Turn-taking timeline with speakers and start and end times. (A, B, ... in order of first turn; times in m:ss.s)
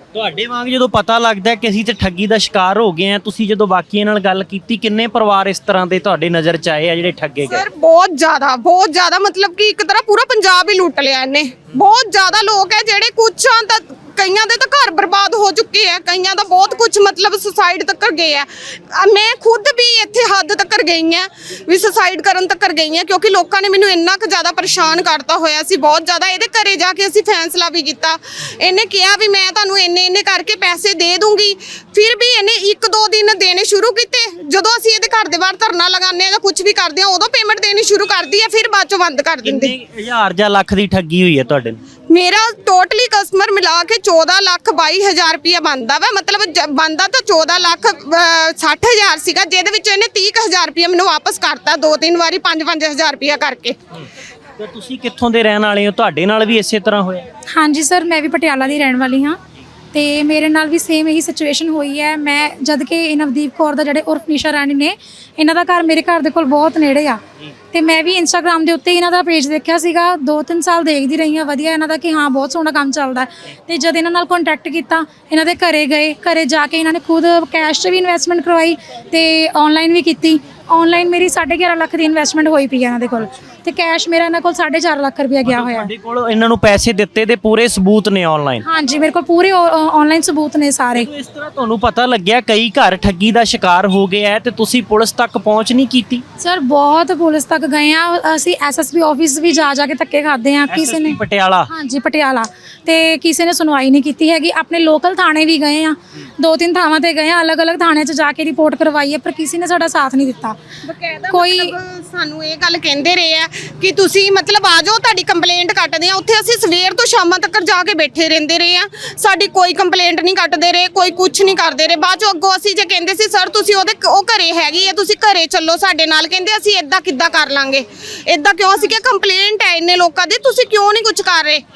0:00.1-0:07.6 A
0:07.4-0:39.7 B
0:39.4-0:41.8 A
0:42.1-0:53.8 B
0:54.6-0:57.2 A
0:57.5-0:59.4 C
0:59.9-1:07.2 C
1:07.7-1:25.9 C
1:25.4-1:28.6 A
1:28.6-1:31.1 C
1:30.9-1:36.2 A
1:36.4-1:50.6 C
1:40.7-1:41.7 A
1:50.8-2:11.6 B
1:51.3-1:51.8 C